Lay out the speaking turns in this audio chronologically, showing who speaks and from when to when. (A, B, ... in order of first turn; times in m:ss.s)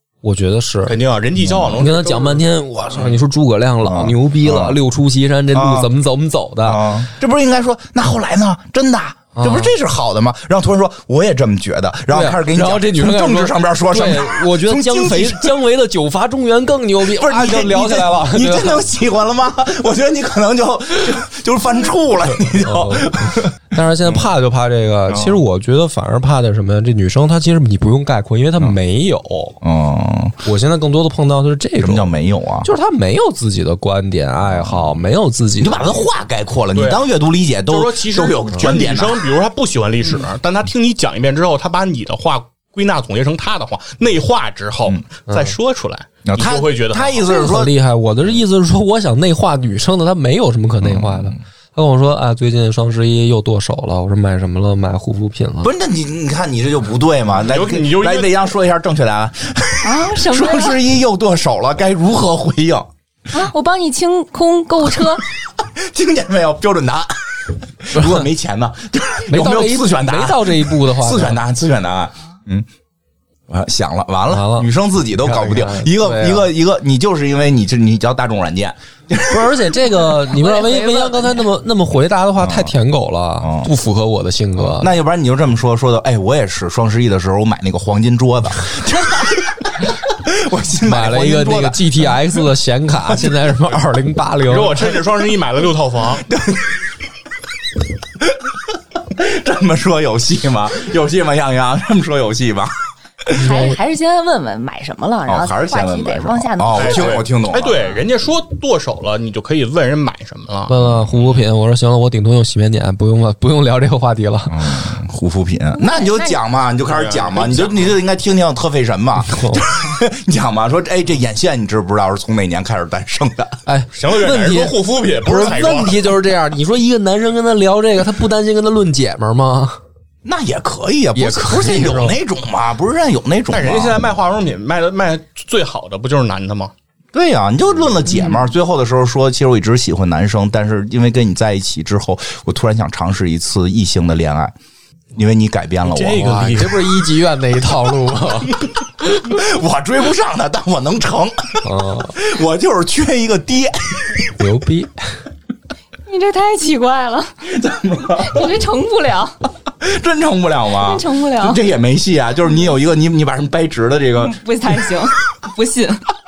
0:00.2-0:01.0 A
0:00.9-0:02.4 B
0:01.4-0:01.8 C
0:01.8-0:06.9 A
0:03.8-0:04.8 C
0:05.5-0:05.9 C
0:06.6-0:15.6 C
0:09.3-0:09.7 A
0:12.1-0:18.8 A
0:17.0-0:24.3 C
0:22.5-0:29.6 A
0:25.1-0:25.4 C
0:29.6-0:30.4 C
0:30.4-0:32.1 A
0:31.8-0:32.7 C
0:32.6-0:36.1 A
0:34.4-0:35.0 C
0:35.6-0:39.2 C
0:36.7-0:37.0 B
0:37.7-0:47.4 B
0:45.3-0:45.6 A
0:46.2-0:47.7 C
0:47.2-0:55.7 A
0:50.8-0:51.4 C
0:55.6-1:02.9 C
0:57.4-0:58.4 B
0:59.8-1:00.8 D
1:03.3-1:05.2 D
1:05.6-1:12.6 C
1:07.9-1:08.2 A
1:09.3-1:11.4 A
1:13.5-1:19.7 C
1:14.3-1:16.5 A
1:19.3-1:24.9 A
1:20.3-1:21.4 D
1:22.4-1:22.8 C
1:23.4-1:23.7 C
1:24.6-1:32.2 C
1:30.8-1:34.8 A
1:33.1-1:33.4 C
1:34.5-1:36.2 B
1:36.2-1:36.9 C
1:38.2-1:42.7 C
1:43.3-1:43.8 A
1:43.4-1:47.2 D
1:45.3-1:47.8 C
1:46.7-1:50.8 B
1:50.7-1:54.8 A
1:50.8-1:51.2 C
1:54.5-2:03.6 C
1:55.7-1:56.4 D
1:56.9-1:57.9 B
1:59.2-1:59.6 A
2:03.6-2:09.8 A
2:03.9-2:06.0 B
2:10.2-2:14.1 C
2:11.1-2:12.2 A
2:13.5-2:16.7 B
2:17.1-2:24.5 C
2:18.1-2:18.4 A
2:25.1-2:26.2 C
2:25.8-2:26.9 B
2:26.2-2:28.5 A
2:29.1-2:34.3 C
2:31.6-2:32.1 A
2:34.4-2:34.9 A
2:36.0-2:37.4 D
2:37.4-2:38.5 C
2:38.1-2:39.4 D
2:39.8-2:44.8 C
2:40.7-2:41.6 D
2:44.2-2:46.1 D